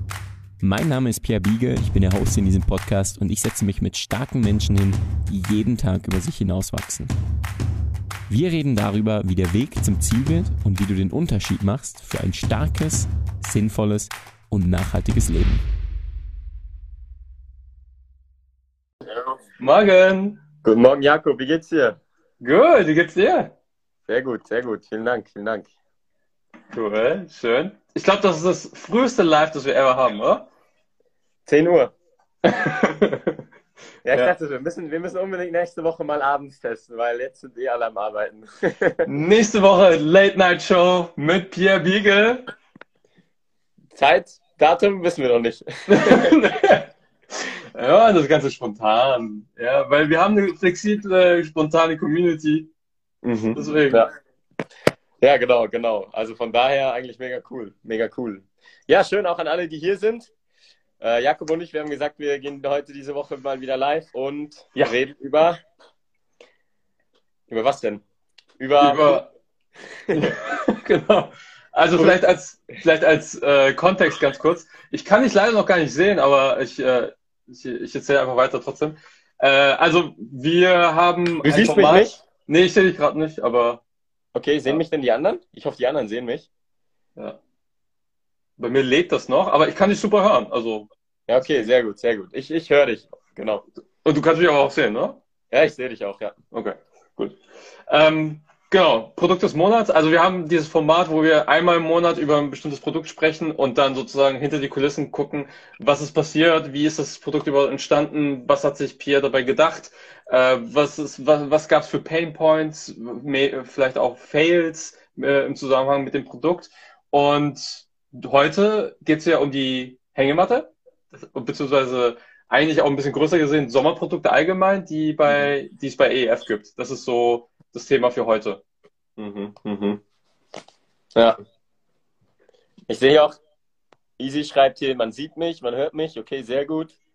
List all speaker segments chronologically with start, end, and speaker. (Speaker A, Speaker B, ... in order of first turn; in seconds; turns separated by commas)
Speaker A: 0.6-7.1, Speaker A: 8.3-15.6, Speaker B: 19.6-20.4, Speaker C: 20.6-22.0, Speaker B: 22.4-23.6, Speaker C: 24.1-25.7, Speaker B: 26.7-30.5, Speaker C: 31.5-31.9, Speaker B: 32.4-33.4, Speaker C: 34.0-39.1, Speaker B: 39.1-42.4, Speaker C: 43.9-46.4, Speaker B: 45.9-52.7, Speaker C: 53.2-54.1, Speaker B: 53.5-54.1, Speaker C: 55.2-60.3, Speaker C: 61.0-65.6, Speaker C: 67.5-68.0, Speaker C: 68.6-69.2, Speaker B: 68.8-69.3, Speaker B: 70.1-83.8, Speaker C: 81.4-82.2, Speaker C: 84.3-86.5, Speaker B: 88.6-90.9, Speaker C: 91.3-93.7, Speaker B: 94.0-95.2, Speaker C: 95.5-96.4, Speaker B: 96.5-128.6, Speaker C: 129.2-130.0, Speaker C: 132.9-133.4, Speaker C: 134.2-137.0